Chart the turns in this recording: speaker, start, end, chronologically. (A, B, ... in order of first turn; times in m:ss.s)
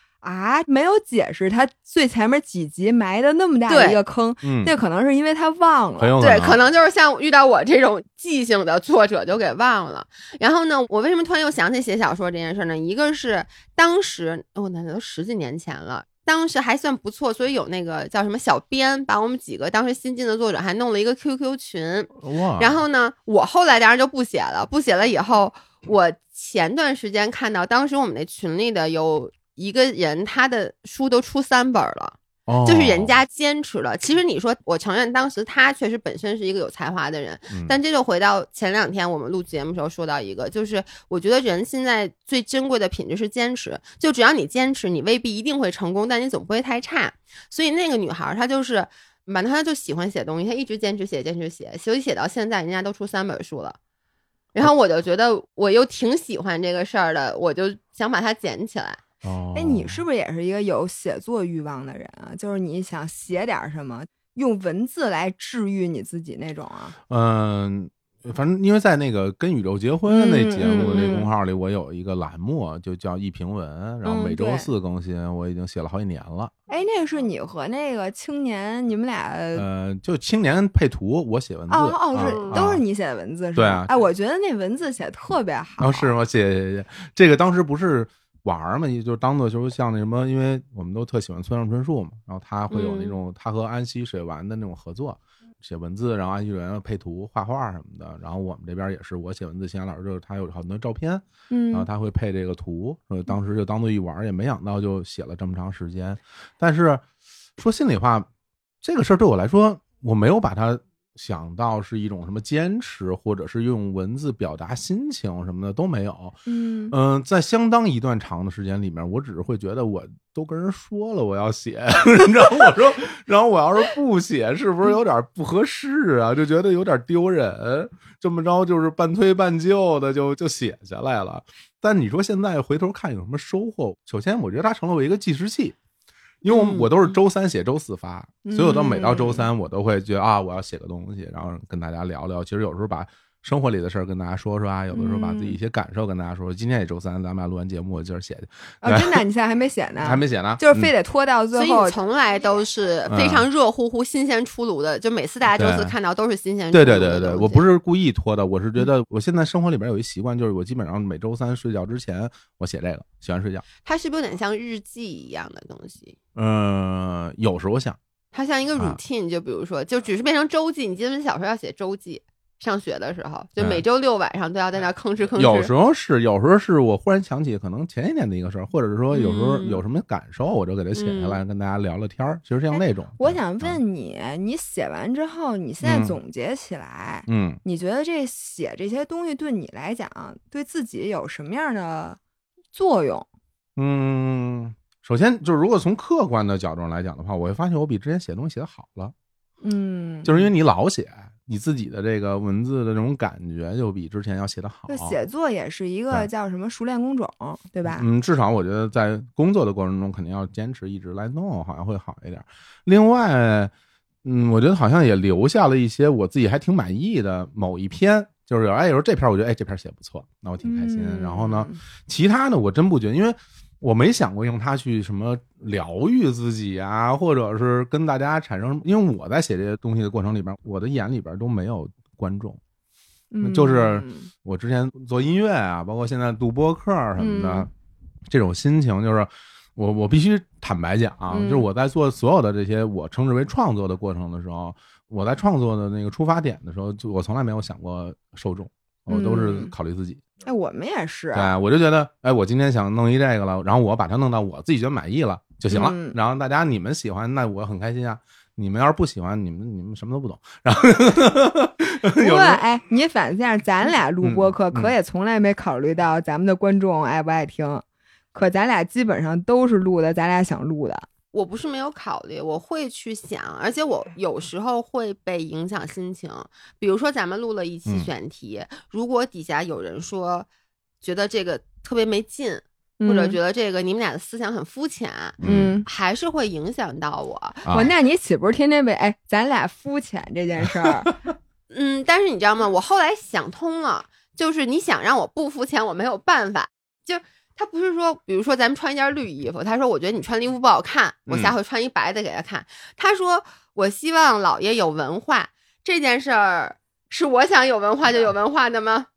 0:00.2-0:06.1 A
0:03.7-0:04.0 B
0:04.4-0:04.7 C
0:06.0-0:06.6 C
0:06.2-0:53.8 B
0:22.2-0:22.8 C
0:32.5-0:33.2 C
0:37.5-0:37.8 C
0:54.5-0:59.0 B
0:59.2-1:00.0 C
0:59.5-1:06.9 A
1:07.1-1:16.5 C
1:10.0-1:11.3 A
1:10.9-1:11.2 B
1:14.0-1:14.7 A
1:16.7-1:19.6 A
1:19.5-1:22.8 C
1:21.7-1:26.1 A
1:22.1-1:22.6 B
1:23.5-1:23.9 C
1:25.8-1:47.0 C
1:32.7-1:33.2 B
1:41.5-1:41.9 A
1:47.6-1:48.3 C
1:48.8-1:56.4 C
1:56.4-1:56.9 A
1:56.9-2:15.8 C
2:16.4-2:29.2 C
2:16.5-2:16.9 B
2:18.4-2:19.5 A
2:24.9-2:25.6 A
2:28.8-2:32.0 A
2:30.0-2:30.9 C
2:31.5-2:37.6 B
2:33.1-2:33.5 C
2:35.5-2:35.9 C
2:36.7-2:43.6 C
2:43.8-2:46.2 B
2:46.3-2:48.0 C
2:48.3-2:55.7 B
2:53.6-2:53.8 C
2:55.4-3:03.8 C
2:59.1-2:59.8 B
3:00.9-3:01.4 B
3:02.7-3:12.2 A
3:05.8-3:06.2 C
3:07.3-3:07.6 C
3:12.7-3:13.3 A
3:13.8-3:19.1 C
3:19.6-3:20.5 A
3:20.2-3:25.2 C
3:24.9-3:28.0 A
3:27.9-3:33.7 C
3:34.2-3:52.6 C
3:40.6-3:41.8 A
3:53.3-3:54.3 A
3:53.4-3:57.7 C
3:57.2-3:57.7 A
3:58.3-4:10.2 C
4:01.3-4:01.7 A
4:09.1-4:09.7 A
4:10.4-4:11.5 A
4:11.3-4:22.6 C
4:15.7-4:16.2 A
4:22.1-4:31.1 A
4:24.2-4:24.9 C
4:31.3-4:40.5 B
4:41.0-4:47.7 B
4:43.0-4:43.4 A
4:45.4-4:45.8 C
4:45.4-4:45.8 A
4:47.7-4:51.1 A
4:50.8-4:51.1 C
4:51.7-5:09.1 B
5:01.3-5:01.5 C